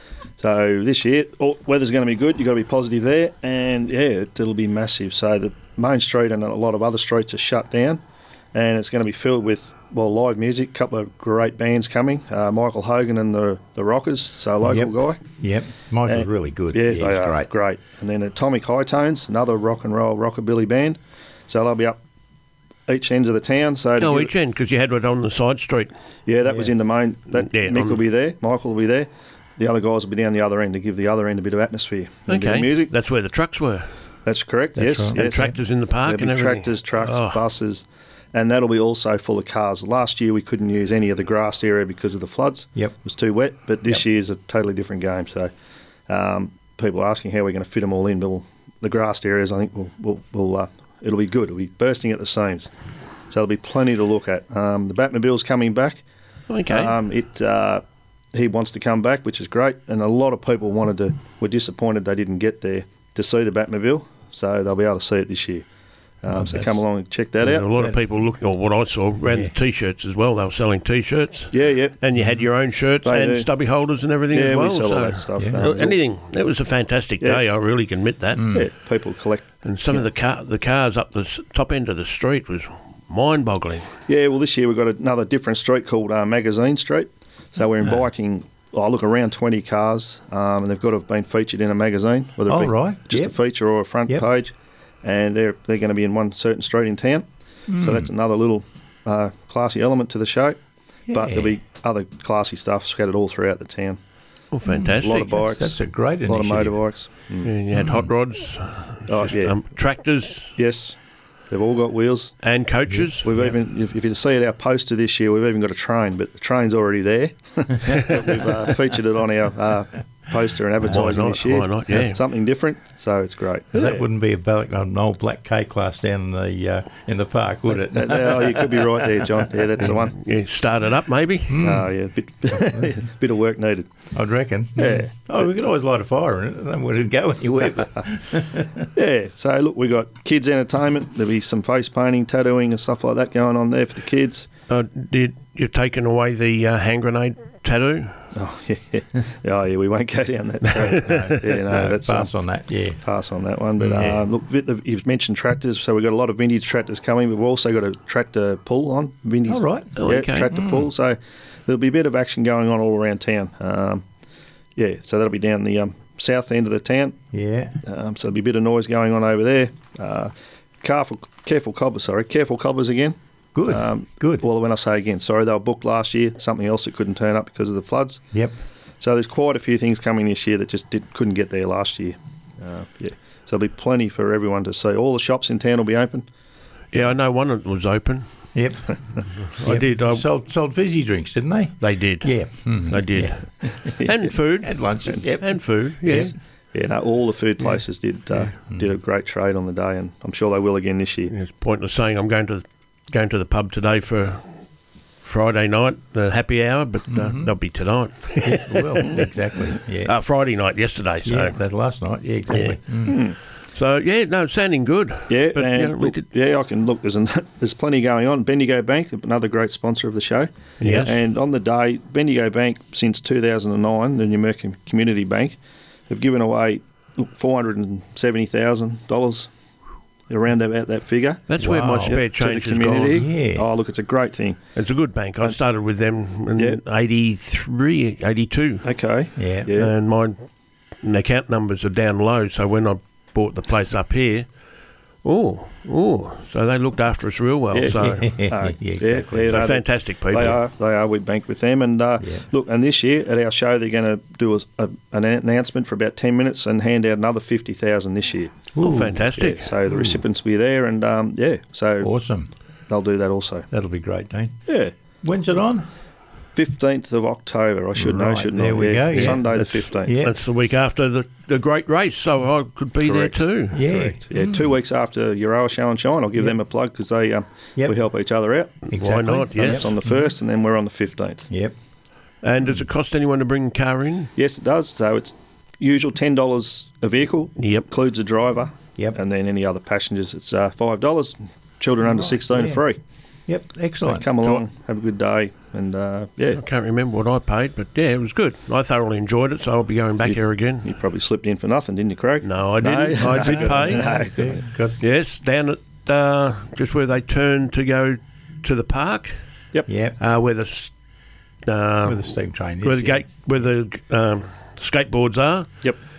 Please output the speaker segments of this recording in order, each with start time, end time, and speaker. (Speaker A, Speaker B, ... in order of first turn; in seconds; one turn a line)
Speaker A: 0.4-8.0
Speaker A: 8.5-15.2
Speaker B: 14.6-17.5
Speaker A: 16.1-22.0
Speaker A: 22.9-24.3
Speaker C: 24.0-25.9
Speaker A: 26.3-32.9
Speaker C: 27.3-28.0
Speaker C: 32.3-33.9
Speaker A: 34.3-45.5
Speaker B: 34.8-35.6
Speaker C: 35.1-37.4
Speaker A: 46.1-52.7
Speaker A: 53.3-56.0
Speaker C: 56.5-57.0
Speaker A: 56.7-65.7
Speaker A: 66.2-67.7
Speaker B: 66.3-66.8
Speaker C: 67.4-78.6
Speaker B: 69.3-69.5
Speaker A: 71.5-72.0
Speaker B: 72.2-72.4
Speaker A: 73.0-73.5
Speaker A: 74.3-76.0
Speaker B: 75.4-75.7
Speaker B: 78.3-78.7
Speaker A: 78.5-80.1
Speaker C: 79.6-83.9
Speaker A: 84.1-97.3
Speaker B: 92.5-93.3
Speaker B: 97.7-98.1
Speaker A: 97.8-100.6
Speaker B: 101.1-101.6
Speaker A: 101.1-104.0
Speaker C: 104.5-105.4
Speaker B: 104.7-106.8
Speaker A: 105.0-107.5
Speaker C: 107.4-110.5
Speaker B: 107.7-108.1
Speaker A: 109.1-109.6
Speaker A: 110.6-111.0
Speaker A: 111.5-112.4
Speaker C: 112.4-113.3
Speaker B: 112.9-113.5
Speaker A: 113.2-124.0
Speaker C: 120.8-122.2
Speaker B: 123.7-129.5
Speaker A: 127.8-130.2
Speaker C: 129.9-131.7
Speaker B: 131.5-131.9
Speaker A: 131.6-133.9
Speaker B: 132.6-132.9
Speaker B: 134.1-138.9
Speaker A: 134.8-135.1
Speaker A: 138.9-144.5
Speaker C: 144.7-148.2
Speaker A: 148.3-152.3
Speaker C: 150.7-151.4
Speaker B: 151.0-153.0
Speaker A: 153.0-164.1
Speaker C: 153.8-154.2
Speaker B: 159.5-159.9
Speaker C: 160.0-160.6
Speaker B: 160.5-160.8
Speaker A: 164.8-167.2
Speaker B: 167.3-167.8
Speaker A: 167.8-178.2
Speaker B: 173.6-174.5
Speaker A: 179.0-186.3
Speaker C: 186.9-188.2
Speaker B: 188.6-188.9
Speaker C: 189.5-190.2
Speaker B: 189.6-194.1
Speaker C: 191.8-194.9
Speaker B: 194.6-196.3
Speaker C: 195.4-196.3
Speaker A: 196.7-201.3
Speaker C: 201.3-204.5
Speaker C: 205.2-209.2
Speaker B: 207.1-207.5
Speaker B: 208.4-210.2
Speaker C: 210.1-211.6
Speaker B: 211.2-213.2
Speaker C: 212.5-212.8
Speaker A: 213.1-213.4
Speaker C: 213.7-216.2
Speaker A: 215.3-225.6
Speaker C: 220.8-221.2
Speaker A: 226.1-229.5
Speaker A: 230.3-231.4
Speaker C: 231.5-233.2
Speaker B: 231.6-232.2
Speaker A: 232.1-234.6
Speaker B: 233.1-233.7
Speaker C: 234.8-238.9
Speaker A: 238.8-239.9
Speaker B: 239.4-239.7
Speaker C: 239.8-240.4
Speaker C: 241.0-244.5
Speaker C: 245.2-248.3
Speaker A: 247.7-258.7
Speaker B: 248.0-249.7
Speaker C: 249.5-250.6
Speaker B: 258.7-259.3
Speaker C: 258.8-259.8
Speaker A: 259.3-262.1
Speaker B: 262.0-262.5
Speaker A: 262.9-263.7
Speaker B: 263.7-264.5
Speaker A: 264.7-264.9
Speaker B: 265.2-265.9
Speaker A: 266.6-270.2
Speaker B: 268.0-270.4
Speaker C: 269.1-273.9
Speaker A: 273.1-278.9
Speaker B: 273.7-274.7
Speaker B: 278.9-280.3
Speaker C: 278.9-279.9
Speaker A: 279.5-281.5
Speaker B: 281.5-281.8
Speaker C: 282.4-284.3
Speaker A: 284.4-293.0
Speaker C: 287.6-287.9
Speaker B: 292.0-292.9
Speaker B: 293.5-294.3
Speaker A: 294.1-296.6
Speaker C: 296.6-300.9
Speaker A: 300.2-304.6
Speaker C: 302.4-304.2
Speaker B: 303.2-305.0
Speaker C: 305.0-309.4
Speaker B: 309.9-310.2
Speaker C: 310.2-310.9
Speaker C: 311.6-312.3
Speaker B: 312.0-313.2
Speaker C: 312.8-315.8